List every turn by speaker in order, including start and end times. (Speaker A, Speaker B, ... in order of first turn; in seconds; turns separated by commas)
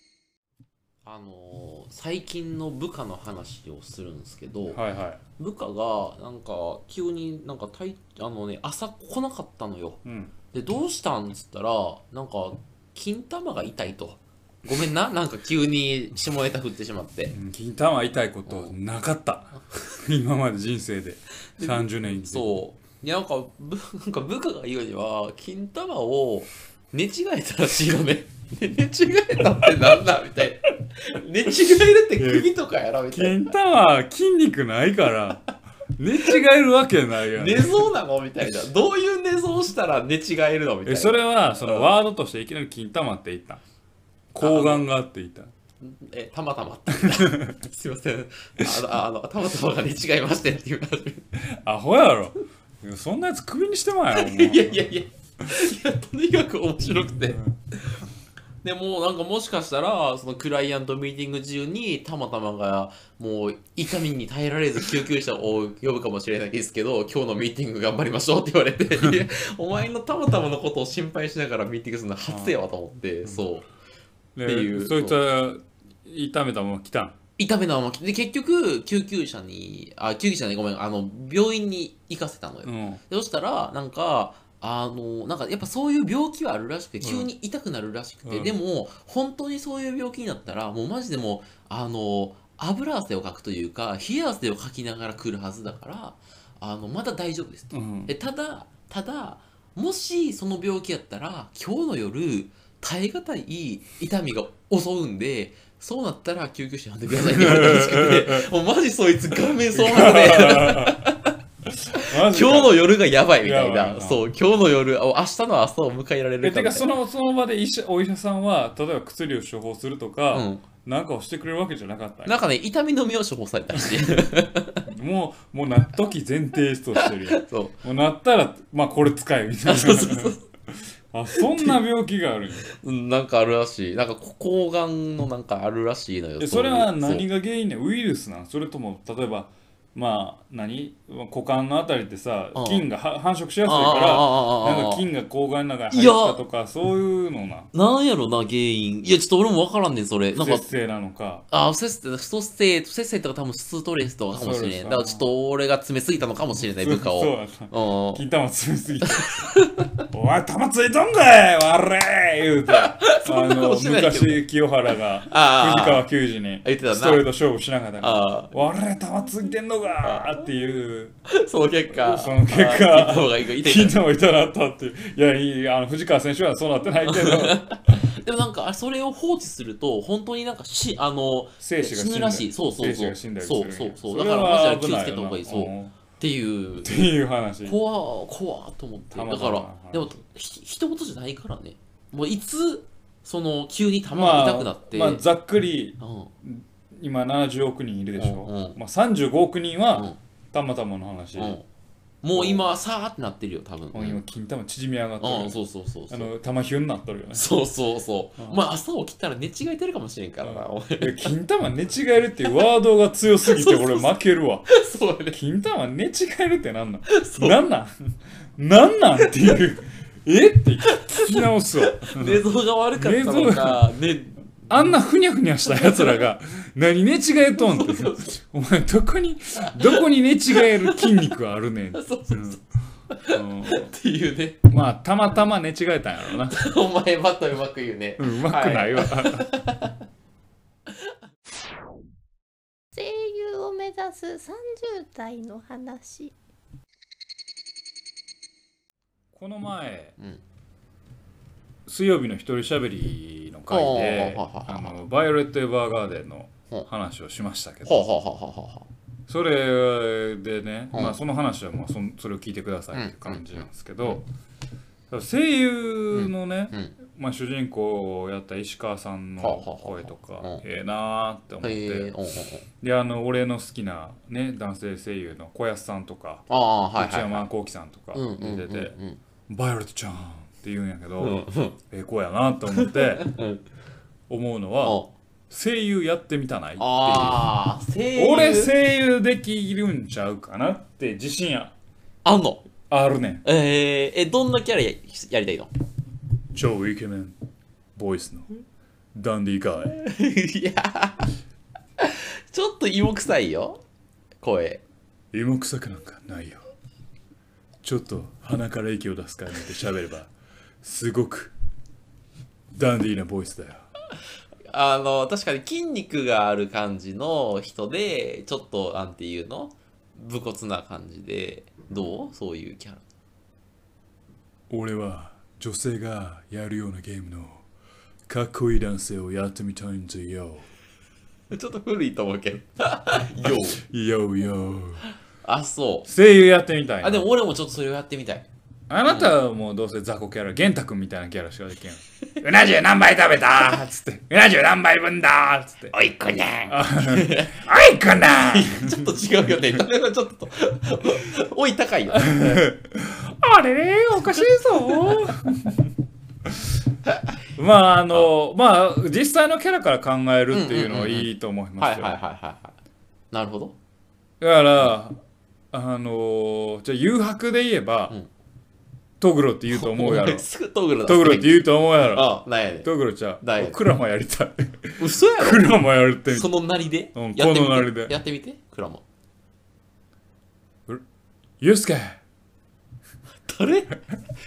Speaker A: 1.0-4.8, Speaker B: 4.7-5.2, Speaker A: 5.4-10.0, Speaker B: 10.0-10.3, Speaker A: 10.5-17.3, Speaker B: 17.3-22.6, Speaker A: 18.5-18.8, Speaker A: 21.6-33.5, Speaker B: 32.2-32.5, Speaker B: 33.1-37.9, Speaker A: 37.3-41.9, Speaker B: 40.8-43.6, Speaker B: 44.3-45.5, Speaker A: 44.4-44.9, Speaker A: 45.8-51.3, Speaker B: 46.9-47.5, Speaker B: 51.6-54.9, Speaker A: 54.1-58.0, Speaker A: 58.6-73.7, Speaker B: 72.3-72.6, Speaker B: 74.3-77.2, Speaker A: 74.4-75.2, Speaker A: 77.4-111.3, Speaker B: 82.6-83.0, Speaker B: 87.0-87.3, Speaker B: 88.2-88.5, Speaker B: 97.7-98.1, Speaker B: 107.1-108.5, Speaker B: 109.7-111.0, Speaker B: 111.9-114.2, Speaker A: 112.0-116.9, Speaker B: 116.4-122.4, Speaker A: 120.3-120.6, Speaker A: 122.2-124.8, Speaker B: 123.8-124.1, Speaker B: 124.8-132.7, Speaker A: 127.0-127.7, Speaker A: 129.7-130.4, Speaker A: 131.3-131.8, Speaker A: 132.7-137.3, Speaker B: 136.4-147.7, Speaker A: 142.5-142.9, Speaker A: 143.6-145.1, Speaker A: 145.9-146.4, Speaker A: 147.7-150.7, Speaker B: 150.3-151.4, Speaker A: 151.5-158.2, Speaker B: 154.3-155.3, Speaker B: 156.8-159.5, Speaker A: 159.2-159.9, Speaker B: 160.1-171.1, Speaker A: 162.7-164.5, Speaker A: 165.2-166.1, Speaker A: 166.6-167.3, Speaker A: 168.0-168.5, Speaker A: 171.3-174.0, Speaker B: 171.9-178.1, Speaker A: 177.1-195.2, Speaker B: 181.6-186.0, Speaker B: 186.8-187.8, Speaker B: 189.1-190.2, Speaker B: 194.1-201.6, Speaker A: 196.0-196.3, Speaker A: 198.2-198.8, Speaker A: 199.9-200.2, Speaker A: 201.3-201.7, Speaker A: 202.2-204.2, Speaker B: 202.3-202.7, Speaker B: 203.9-207.5, Speaker A: 205.2-206.3, Speaker A: 207.3-211.3, Speaker B: 210.4-214.7, Speaker A: 213.4-214.2, Speaker A: 214.7-215.4, Speaker B: 215.3-217.9, Speaker A: 217.1-217.6, Speaker B: 218.6-223.9, Speaker A: 220.9-224.5, Speaker B: 224.7-232.6, Speaker A: 225.7-226.3, Speaker A: 227.6-228.4, Speaker A: 229.7-231.1, Speaker A: 231.9-234.6, Speaker B: 233.3-233.9, Speaker B: 234.7-236.6, Speaker A: 236.5-240.0, Speaker B: 238.2-239.5, Speaker C: 242.9-246.3, Speaker B: 249.3-250.1, Speaker B: 251.9-258.1, Speaker A: 253.7-255.0, Speaker A: 257.8-258.9, Speaker B: 259.3-264.2, Speaker A: 260.9-261.2, Speaker A: 262.9-264.2, Speaker B: 265.1-272.1, Speaker A: 266.1-266.9, Speaker A: 269.4-270.6, Speaker A: 271.6-272.6, Speaker B: 272.8-276.4, Speaker A: 276.5-277.4, Speaker B: 276.9-278.9, Speaker A: 278.1-279.2, Speaker B: 279.5-283.3, Speaker A: 281.2-281.8, Speaker A: 282.8-283.6, Speaker B: 284.3-287.5, Speaker A: 284.8-285.1, Speaker A: 286.8-288.7, Speaker B: 288.1-291.8, Speaker A: 292.2-292.6, Speaker B: 292.9-293.4, Speaker A: 293.4-295.7, Speaker B: 296.5-297.3, Speaker B: 297.9-298.5, Speaker B: 299.1-300.0, Speaker A: 300.0-301.3, Speaker A: 302.0-303.8, Speaker A: 304.4-304.8, Speaker B: 305.3-306.6, Speaker B: 307.8-310.3, Speaker B: 310.8-311.5, Speaker B: 312.7-313.8, Speaker A: 314.7-323.0, Speaker B: 324.7-327.6, Speaker B: 328.3-330.7, Speaker A: 331.5-333.8, Speaker B: 333.4-335.0, Speaker A: 335.4-336.1, Speaker B: 336.0-337.3, Speaker A: 337.0-338.5, Speaker B: 338.9-345.9, Speaker A: 339.1-339.3, Speaker A: 345.9-347.6, Speaker B: 346.7-349.0, Speaker A: 348.2-352.6, Speaker B: 352.1-355.8, Speaker B: 357.6-362.1, Speaker A: 360.5-362.8, Speaker A: 363.3-363.8, Speaker B: 364.4-365.1, Speaker B: 365.7-368.1, Speaker B: 369.2-370.4, Speaker A: 369.7-373.8, Speaker B: 371.0-376.5, Speaker A: 375.0-379.0, Speaker B: 377.1-378.2, Speaker B: 381.6-382.2, Speaker A: 383.4-384.0